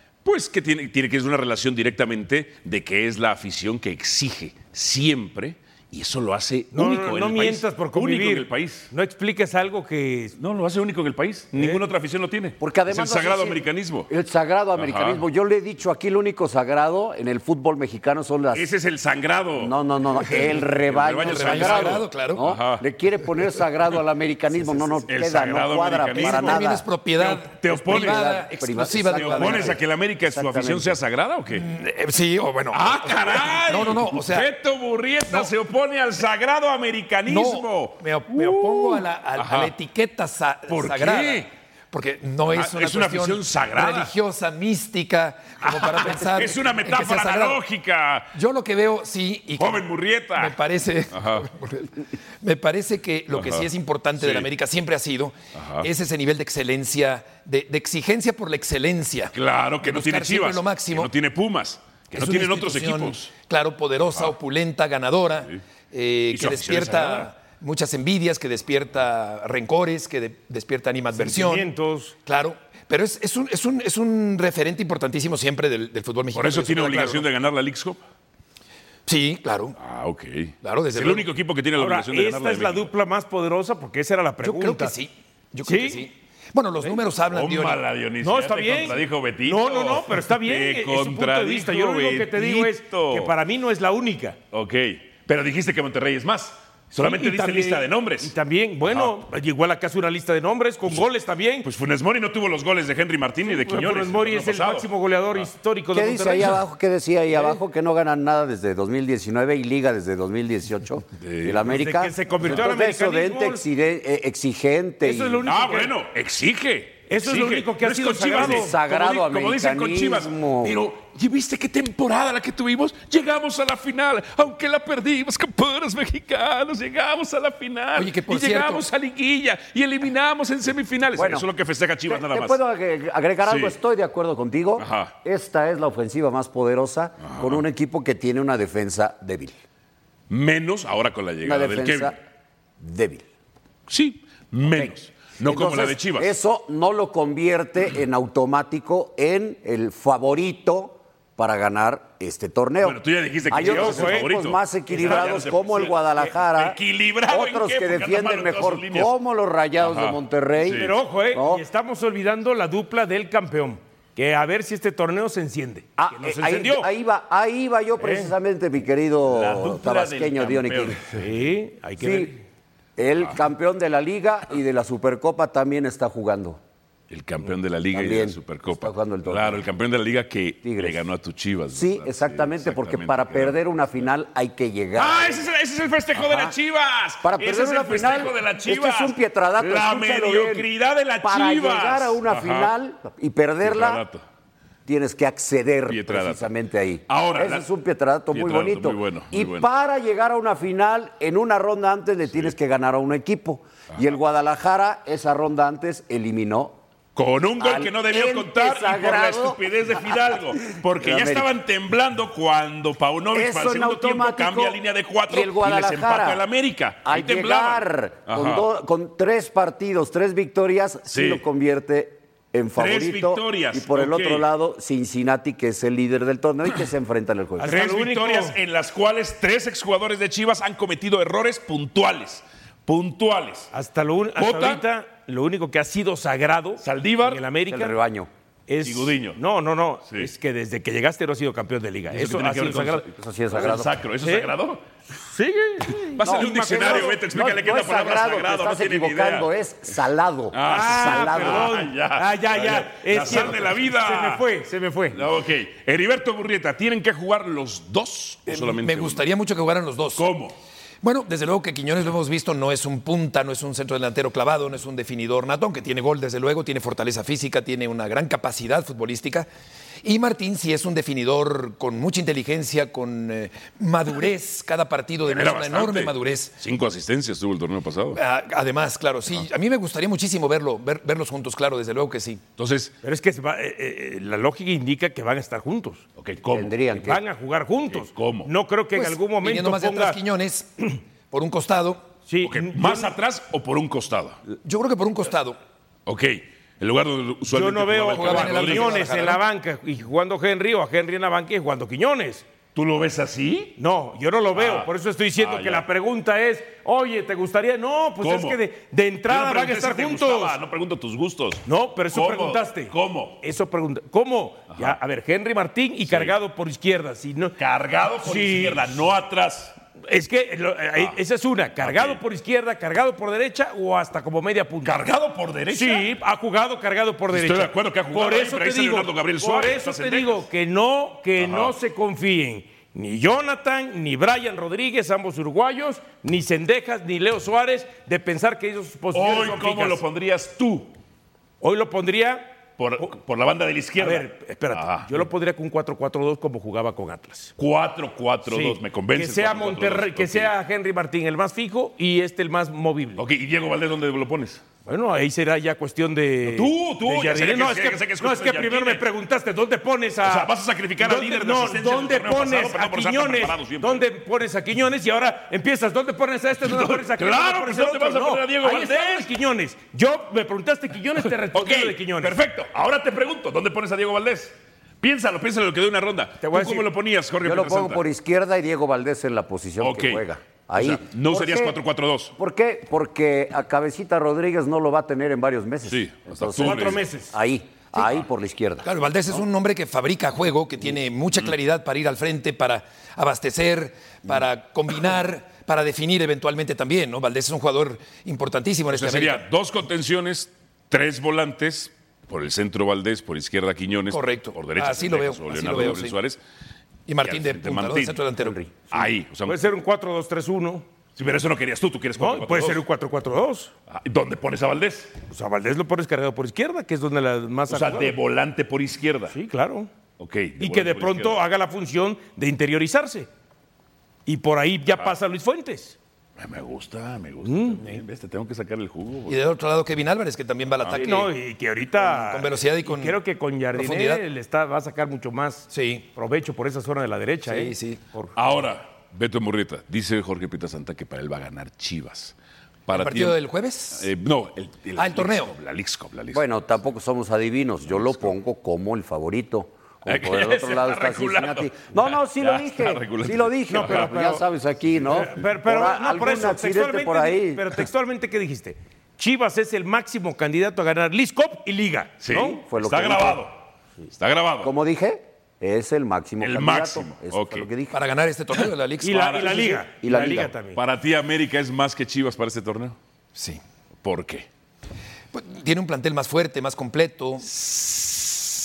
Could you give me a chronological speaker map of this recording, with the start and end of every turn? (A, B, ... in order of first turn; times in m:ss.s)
0:00.2-0:08.9 A
0:06.7-0:10.3 B
0:10.4-0:14.1 A
0:11.5-0:11.8 B
0:12.6-0:18.6 C
0:14.7-0:15.2 A
0:18.5-0:22.8 A
0:19.6-0:26.9 C
0:21.2-0:22.4 D
0:25.1-0:26.6 A
0:26.1-0:29.8 D
0:27.2-0:28.4 A
0:27.7-0:30.9 C
0:29.1-0:31.6 A
0:31.5-0:34.5 D
0:32.7-0:39.7 A
0:37.2-0:47.6 D
0:40.7-0:41.5 A
0:42.5-0:44.1 A
0:45.6-0:48.3 A
0:48.3-0:49.8 D
0:49.6-0:50.6 A
0:50.4-1:01.1 D
0:51.1-0:51.4 A
0:53.3-0:54.5 A
0:55.5-0:55.9 A
0:59.3-1:03.3 A
1:02.1-1:11.7 D
1:06.3-1:07.3 A
1:11.1-1:12.1 B
1:12.2-1:17.2 D
1:16.3-1:18.0 A
1:19.0-1:19.8 D
1:19.8-1:22.9 A
1:20.6-1:21.3 D
1:21.8-1:24.9 B
1:24.4-1:27.8 D
1:25.6-1:26.0 B
1:27.3-1:33.3 A
1:28.2-1:34.4 B
1:34.5-1:38.3 A
1:37.0-1:41.7 B
1:38.8-1:39.1 A
1:41.6-1:45.4 A
1:43.4-1:46.6 B
1:45.9-1:55.4 C
1:51.2-1:51.7 A
1:51.7-1:53.6 B
1:55.0-1:55.9 B
1:55.4-2:12.6 A
1:57.1-1:58.7 B
1:58.3-2:00.8 C
2:07.9-2:08.8 D
2:11.2-2:11.5 C
2:12.1-2:19.5 C
2:13.4-2:13.7 A
2:14.8-2:15.2 A
2:17.2-2:17.6 A
2:20.3-2:22.1 A
2:21.4-2:22.1 C
2:22.8-2:23.2 C
2:23.9-2:26.3 A
2:24.6-2:24.9 C
2:25.4-2:41.6 C
2:32.8-2:39.1 A
2:33.6-2:34.3 B
2:34.9-2:35.5 B
2:39.8-2:40.9 A
2:40.7-2:46.9 B
2:46.0-2:51.0 C
2:48.0-2:48.3 B
2:49.2-2:51.2 A
2:51.1-2:52.4 B
2:52.0-2:52.3 C
2:53.0-2:56.6 C
2:57.1-3:04.1 A
2:57.9-2:59.6 C
3:00.6-3:01.0 C
3:01.7-3:05.5 C
3:04.9-3:12.7 A
3:06.2-3:06.6 C
3:07.2-3:10.7 C
3:11.2-3:14.0 C
3:13.6-3:14.2 A
3:14.8-3:26.8 C
3:15.9-3:16.5 A
3:17.1-3:17.6 A
3:18.3-3:19.7 A
3:27.2-3:38.6 A
3:27.6-3:31.5 C
3:33.3-3:34.8 C
3:35.3-3:36.4 C
3:37.0-3:47.7 C
3:41.1-3:41.4 A
3:42.7-3:44.5 A
3:47.6-3:48.6 B
3:47.6-3:53.7 A
3:53.7-3:57.9 B
3:54.4-3:54.8 A
3:56.8-3:57.4 A
3:57.7-3:58.3 C
3:58.7-4:03.1 B
3:58.8-3:59.4 A
4:02.1-4:04.8 A
4:03.2-4:03.9 C
4:04.2-4:04.5 B
4:05.1-4:07.2 B
4:06.2-4:09.5 A
4:06.2-4:11.8 C
4:10.5-4:14.4 A
4:10.6-4:15.2 B
4:15.1-4:19.2 A
4:18.5-4:20.2 D
4:20.2-4:20.5 A
4:21.0-4:29.5 D
4:30.0-4:36.5 D
4:35.2-4:38.2 A
4:38.1-4:42.4 D
4:42.6-4:42.9 A
4:43.0-4:46.0 B
4:46.2-4:47.0 A
4:46.5-4:47.2 C
4:47.0-4:50.2 B
4:47.9-4:48.5 A
4:48.9-4:52.0 D
4:52.3-4:53.1 B
4:52.4-4:54.4 A
4:54.6-4:55.6 D
4:56.0-4:59.1 A
4:57.5-5:02.4 B
4:58.1-4:59.4 D
5:02.7-5:03.8 A
5:03.8-5:10.6 B
5:04.5-5:05.8 A
5:08.2-5:08.6 A
5:09.3-5:13.4 A
5:11.6-5:17.6 B
5:16.1-5:16.3 A
5:17.6-5:19.7 A
5:18.2-5:18.8 B
5:20.1-5:24.9 B
5:21.8-5:22.2 A
5:24.8-5:26.1 A
5:25.7-5:40.0 B
5:27.3-5:30.4 A
5:31.4-5:31.7 A
5:39.1-5:40.9 A
5:41.6-5:43.1 B
5:42.8-5:45.2 A
5:44.0-5:47.5 B
5:47.6-5:50.5 A
5:48.4-5:53.2 B
5:53.2-5:54.6 A
5:54.8-6:12.4 B
5:56.4-5:59.0 A
6:00.2-6:04.0 A
6:06.6-6:09.3 A
6:11.2-6:18.0 A
6:16.4-6:16.9 B
6:17.4-6:21.8 C
6:19.8-6:20.2 A
6:20.8-6:22.3 A
6:22.4-6:28.9 C
6:25.8-6:27.0 A
6:26.6-6:27.3 B
6:28.8-6:39.4 D
6:38.9-6:46.4 A
6:44.1-6:46.2 D
6:47.1-6:48.6 D
6:47.2-6:48.2 A
6:48.9-6:49.6 A
6:49.4-6:50.8 B
6:51.2-6:52.8 A
6:52.2-6:53.7 B
6:53.9-6:55.1 A
6:55.3-6:58.1 B
6:57.7-6:59.3 A
6:59.3-6:59.9 B
7:00.2-7:01.4 A
7:00.6-7:03.3 B
7:04.2-7:06.0 B
7:06.4-7:09.4 A
7:07.4-7:08.0 B
7:09.3-7:11.3 D
7:10.9-7:18.3 B
7:12.0-7:13.2 D
7:13.7-7:14.2 D
7:15.7-7:16.0 D
7:17.4-7:18.0 D
7:18.4-7:22.3 A
7:22.9-7:23.4 A
7:22.9-7:24.1 D
7:23.9-7:26.4 A
7:25.0-7:25.5 D
7:26.3-7:37.6 C
7:27.9-7:28.3 A
7:30.0-7:34.4 A
7:33.7-7:34.4 B
7:35.1-7:42.6 B
7:42.2-7:43.6 A
7:42.6-7:43.4 C
7:44.2-7:44.7 A
7:44.6-7:48.0 C
7:46.4-7:47.7 A
7:47.9-7:49.4 D
7:49.0-7:50.8 B
7:49.1-7:49.8 A
7:50.0-7:50.5 C
7:50.7-7:53.0 A
7:53.3-7:53.6 D
7:54.0-7:54.5 A
7:55.3-7:57.5 D
7:57.6-7:58.2 A